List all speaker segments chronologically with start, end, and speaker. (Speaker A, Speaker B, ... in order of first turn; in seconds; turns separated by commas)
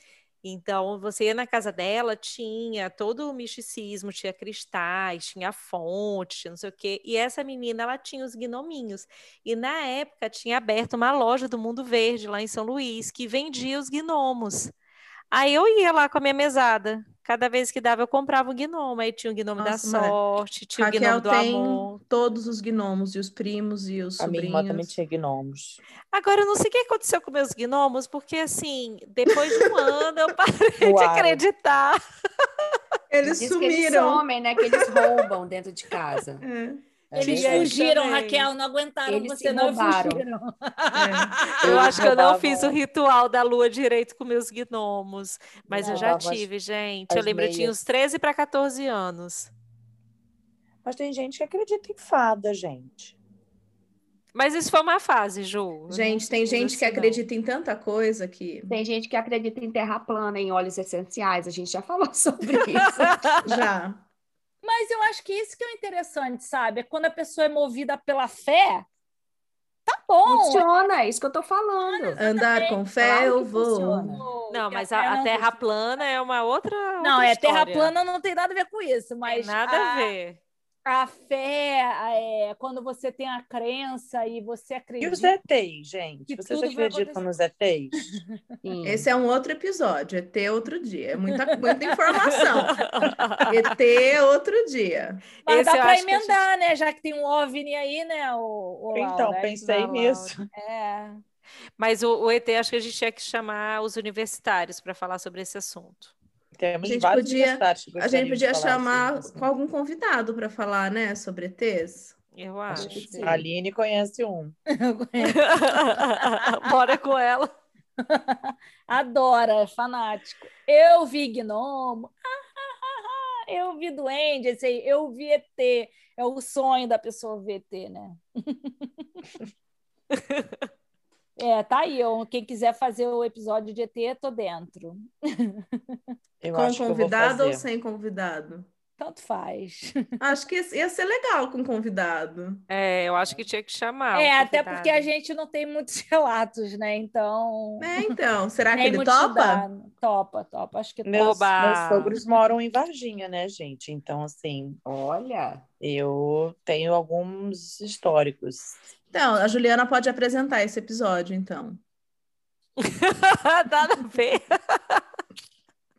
Speaker A: 0.4-14.7, Speaker A: 15.3-21.9, Speaker B: 19.6-20.1, Speaker B: 20.8-24.9, Speaker C: 24.2-25.8, Speaker A: 26.1-32.0, Speaker C: 30.8-31.4, Speaker B: 33.1-35.1, Speaker D: 33.2-36.4, Speaker B: 36.4-36.8, Speaker C: 37.1-37.7, Speaker A: 37.1-38.5, Speaker E: 37.2-41.6, Speaker D: 39.1-40.2, Speaker B: 40.9-42.0, Speaker C: 41.6-42.8, Speaker A: 41.6-49.5, Speaker C: 45.7-46.5, Speaker E: 45.8-46.2, Speaker C: 47.1-47.7, Speaker C: 50.8-53.2, Speaker A: 54.3-57.2, Speaker B: 55.9-58.8, Speaker D: 58.7-63.4, Speaker A: 63.0-63.4, Speaker B: 63.4-64.0, Speaker E: 64.6-68.8, Speaker E: 69.9-70.7, Speaker D: 70.2-72.2, Speaker E: 71.9-72.8, Speaker B: 72.2-74.2, Speaker D: 73.0-74.2, Speaker E: 74.1-75.6, Speaker A: 74.5-77.9, Speaker E: 77.0-80.1, Speaker A: 79.2-80.4, Speaker E: 80.8-85.3, Speaker C: 85.0-88.2, Speaker E: 86.3-87.2, Speaker D: 88.6-89.1, Speaker B: 88.8-92.9, Speaker A: 92.3-93.7, Speaker B: 93.5-95.2, Speaker E: 95.5-99.6, Speaker A: 95.5-96.4, Speaker C: 98.9-100.5, Speaker A: 99.6-100.3, Speaker E: 100.5-101.2, Speaker A: 101.8-106.1, Speaker C: 106.6-109.5, Speaker B: 106.8-112.1, Speaker A: 112.4-113.0, Speaker C: 112.7-114.5, Speaker D: 112.8-113.4, Speaker E: 112.8-113.4, Speaker E: 114.7-116.4, Speaker A: 115.2-117.5, Speaker E: 118.0-129.1, Speaker E: 131.4-135.9, Speaker C: 136.4-137.6, Speaker B: 136.5-138.7, Speaker E: 139.0-139.9, Speaker B: 140.2-142.6, Speaker A: 142.7-145.1, Speaker E: 144.1-148.1, Speaker B: 147.8-149.7, Speaker E: 148.7-151.5, Speaker C: 151.0-154.8, Speaker A: 151.2-152.2, Speaker D: 154.8-155.7, Speaker C: 155.8-158.8, Speaker B: 159.1-161.8, Speaker A: 162.8-165.0